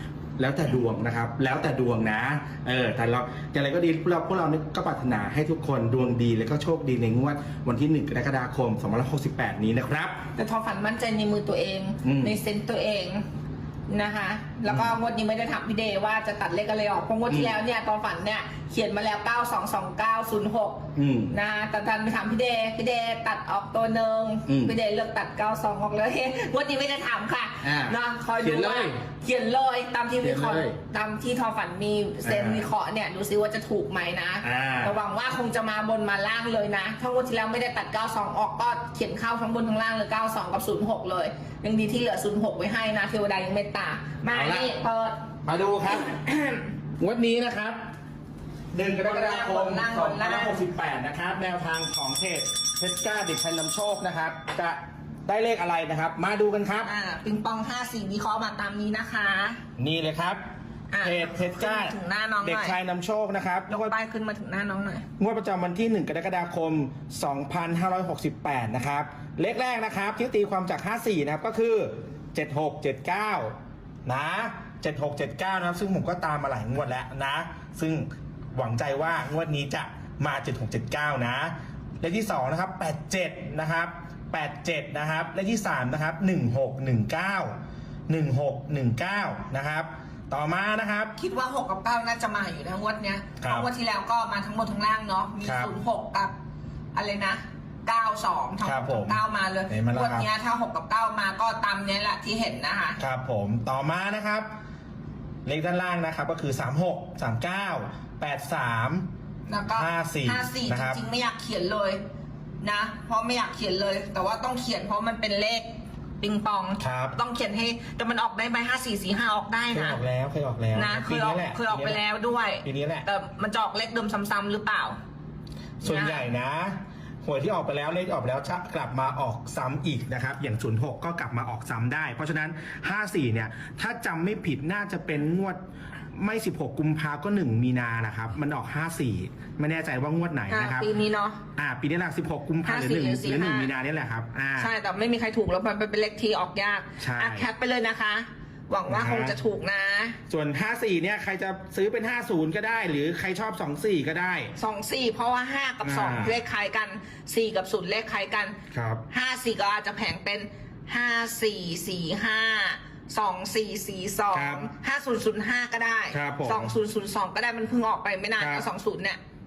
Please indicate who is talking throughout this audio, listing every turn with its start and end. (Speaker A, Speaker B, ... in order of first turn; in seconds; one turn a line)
Speaker A: 0.4-10.2
Speaker B: 10.4-13.2
Speaker A: 12.0-12.4
Speaker B: 13.9-45.2
Speaker A: 17.3-17.6
Speaker A: 20.9-21.4
Speaker A: 24.5-24.7
Speaker A: 27.6-29.0
Speaker A: 30.2-30.8
Speaker A: 32.2-32.6
Speaker A: 34.4-34.9
Speaker A: 44.3-44.7
Speaker A: 45.5-46.4
Speaker A: 47.0-47.8
Speaker A: 48.7-56.9
Speaker B: 49.0-50.6
Speaker B: 56.8-59.6
Speaker A: 59.8-60.4
Speaker B: 60.9-62.8
Speaker A: 61.0-63.9
Speaker B: 63.7-65.1
Speaker A: 65.2-73.5
Speaker A: 74.1-87.5
Speaker A: 88.1-91.2
Speaker B: 91.2-96.3
Speaker A: 93.4-93.7
Speaker A: 95.4-95.7
Speaker B: 97.0-103.0
Speaker A: 98.6-100.3
Speaker A: 103.0-104.5
Speaker A: 105.5-109.0
Speaker B: 109.5-112.0
Speaker A: 109.8-111.0
Speaker B: 112.6-115.7
Speaker B: 116.2-120.0
Speaker A: 116.8-117.2
Speaker A: 119.7-122.0
Speaker B: 120.7-125.0
Speaker A: 122.6-123.1
Speaker A: 125.8-135.6
Speaker B: 125.8-126.3
Speaker A: 136.1-140.9
Speaker B: 140.5-141.4
Speaker A: 141.6-144.7
Speaker B: 142.7-143.7
Speaker B: 144.6-150.2
Speaker A: 147.0-147.5
Speaker A: 148.9-149.4
Speaker A: 150.3-154.5
Speaker B: 154.6-158.6
Speaker A: 155.8-156.4
Speaker A: 158.7-159.0
Speaker B: 159.1-169.2
Speaker A: 164.3-164.7
Speaker A: 166.1-166.7
Speaker A: 168.4-168.6